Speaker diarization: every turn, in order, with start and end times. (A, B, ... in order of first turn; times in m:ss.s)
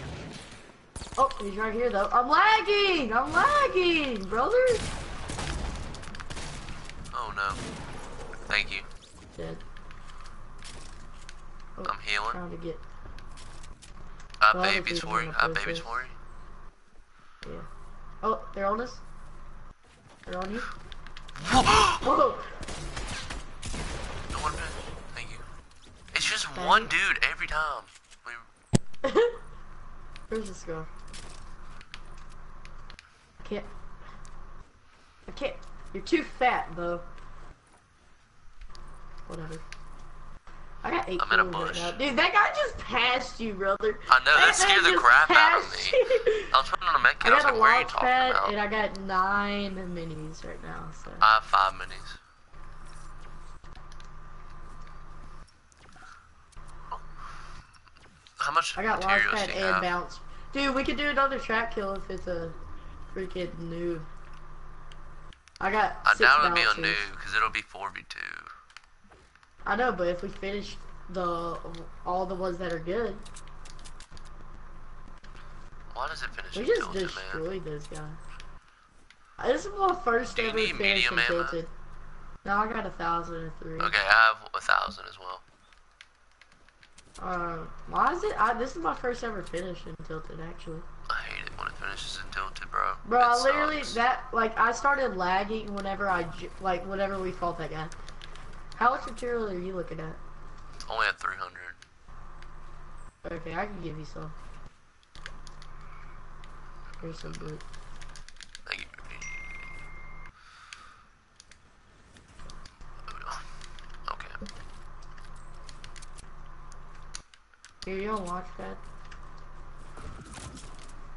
0:01.2-0:04.9 A
0:07.1-0:07.6 B
0:08.5-0:08.9 B
0:09.4-0:09.6 A
0:11.8-0:12.8 A
0:11.8-0:12.4 B
0:14.4-0:16.1 B
0:14.5-0:16.0 A
0:17.4-0:17.7 A
0:18.2-0:19.0 A
0:20.2-0:20.7 A
0:21.4-0:22.1 B
0:22.0-0:22.5 A
0:24.3-0:25.4 B
0:26.1-0:28.4 B
0:26.5-0:26.9 A
0:29.0-0:29.4 A
0:30.3-0:30.9 A
0:33.4-0:33.7 A
0:35.2-0:37.1 A
0:39.3-0:39.6 A
0:40.8-0:46.5 A
0:41.2-0:42.0 B
0:44.1-0:46.0 B
0:46.5-0:48.5 B
0:47.2-0:51.2 A
0:51.2-0:52.2 B
0:58.4-0:59.9 B
0:58.8-1:02.6 A
1:03.1-1:04.1 A
1:05.6-1:07.0 A
1:06.0-1:08.5 B
1:09.6-1:13.2 A
1:15.9-1:17.4 B
1:16.5-1:18.2 A
1:19.4-1:21.7 A
1:20.3-1:21.6 B
1:22.4-1:23.9 A
1:23.8-1:25.4 B
1:27.2-1:30.9 A
1:31.1-1:34.0 B
1:33.0-1:37.9 A
1:38.8-1:40.2 A
1:40.9-1:41.8 B
1:43.2-1:44.3 A
1:47.0-1:47.6 A
1:48.6-1:49.6 B
1:53.1-1:53.4 B
1:54.1-1:54.4 B
1:57.8-1:58.8 A